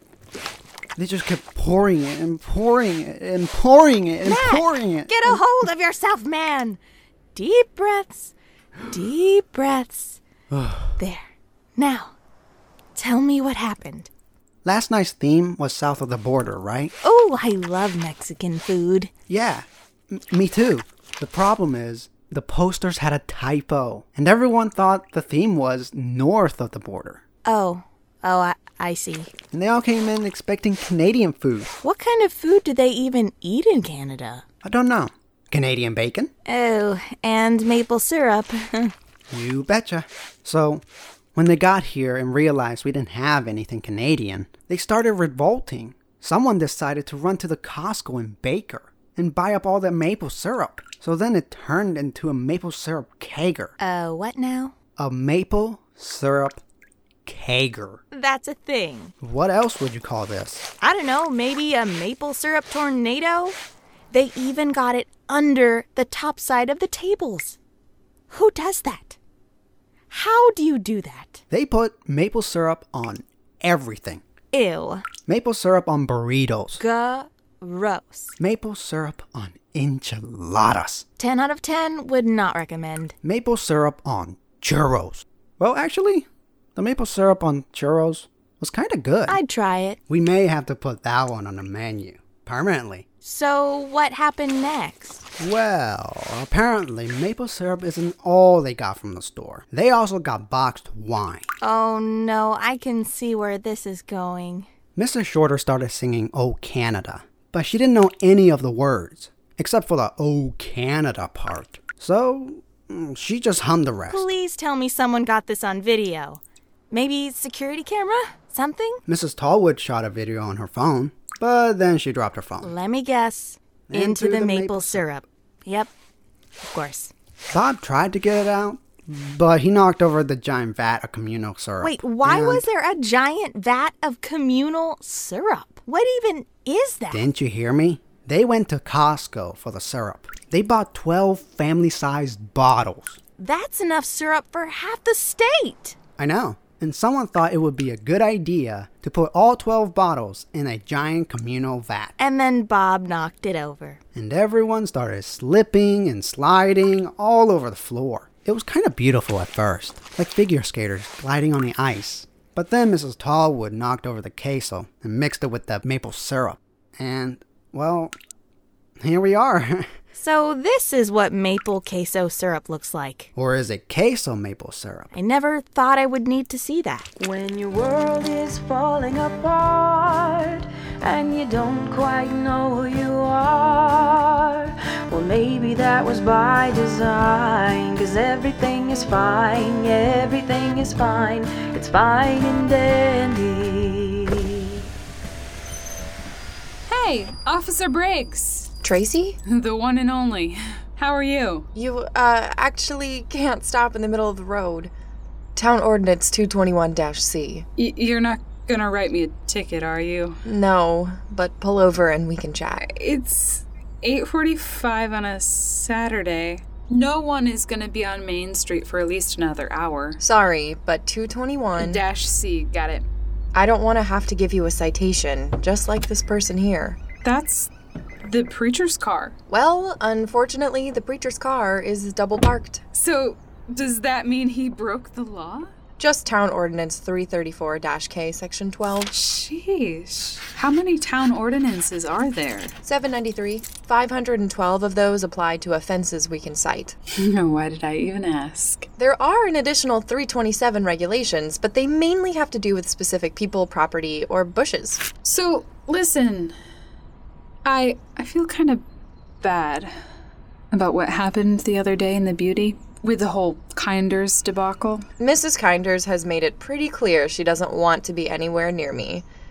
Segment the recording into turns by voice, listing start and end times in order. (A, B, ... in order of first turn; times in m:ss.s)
0:01.0-0:05.4 A
0:04.2-0:06.8 B
0:07.3-0:08.3 B
0:08.9-0:10.2 B
0:10.5-0:11.0 A
0:11.0-0:12.1 B
0:12.9-0:14.1 B
0:14.6-0:16.9 A
0:17.0-0:19.1 B
0:19.3-0:27.2 A
0:27.4-0:29.3 B
0:29.5-0:31.7 A
0:31.8-0:34.4 B
0:34.6-0:36.3 A
0:36.4-0:38.9 B
0:39.3-0:40.8 A
0:41.3-0:53.7 A
0:53.8-0:54.7 B
0:55.0-0:56.6 A
0:57.2-0:58.0 A
0:58.1-0:59.1 B
0:59.2-1:00.6 A
1:00.8-1:03.6 B
1:04.1-1:07.6 B
1:08.3-1:09.2 B
1:10.1-1:11.4 B
1:11.5-1:14.2 A
1:14.5-1:15.0 B
1:15.3-1:16.8 A
1:16.8-1:18.4 B
1:18.4-1:21.0 A
1:21.2-1:23.1 B
1:23.2-1:29.4 A
1:29.3-1:30.0 B
1:30.1-1:33.0 A
1:33.2-1:35.2 B
1:35.4-1:41.5 A
1:41.6-1:44.7 B
1:44.9-1:54.3 A
1:54.1-1:59.0 B
1:59.0-2:02.7 A
2:02.6-2:05.9 B
2:03.9-2:05.0 A
2:06.6-2:07.1 B
2:07.5-2:12.6 A
2:11.8-2:17.2 B
2:17.1-2:23.2 A
2:23.4-2:26.0 B
2:26.2-2:32.1 A
2:32.2-2:34.0 B
2:34.1-2:48.1 A
2:49.0-2:49.9 A
2:50.1-2:53.3 B
2:53.3-2:55.1 A
2:55.1-2:57.1 B
2:57.2-3:14.7 C
3:16.9-3:18.7 D
3:18.8-3:19.4 E
3:19.4-3:21.7 D
3:21.7-3:24.9 E
3:25.6-3:27.6 E
3:27.8-3:30.4 D
3:30.4-3:32.9 E
3:32.9-3:40.2 D
3:40.2-3:42.0 E
3:41.8-3:43.0 D
3:43.5-3:47.0 E
3:47.2-3:47.7 D
3:48.2-3:49.4 D
3:49.5-3:52.8 E
3:52.9-3:55.7 D
3:56.0-3:59.1 E
3:59.1-4:02.7 D
4:02.8-4:07.0 E
4:07.1-4:08.9 D
4:09.0-4:15.1 E
4:15.2-4:16.5 D
4:17.6-4:18.8 D
4:19.4-4:19.9 D
4:20.7-4:25.1 D
4:25.2-4:29.2 E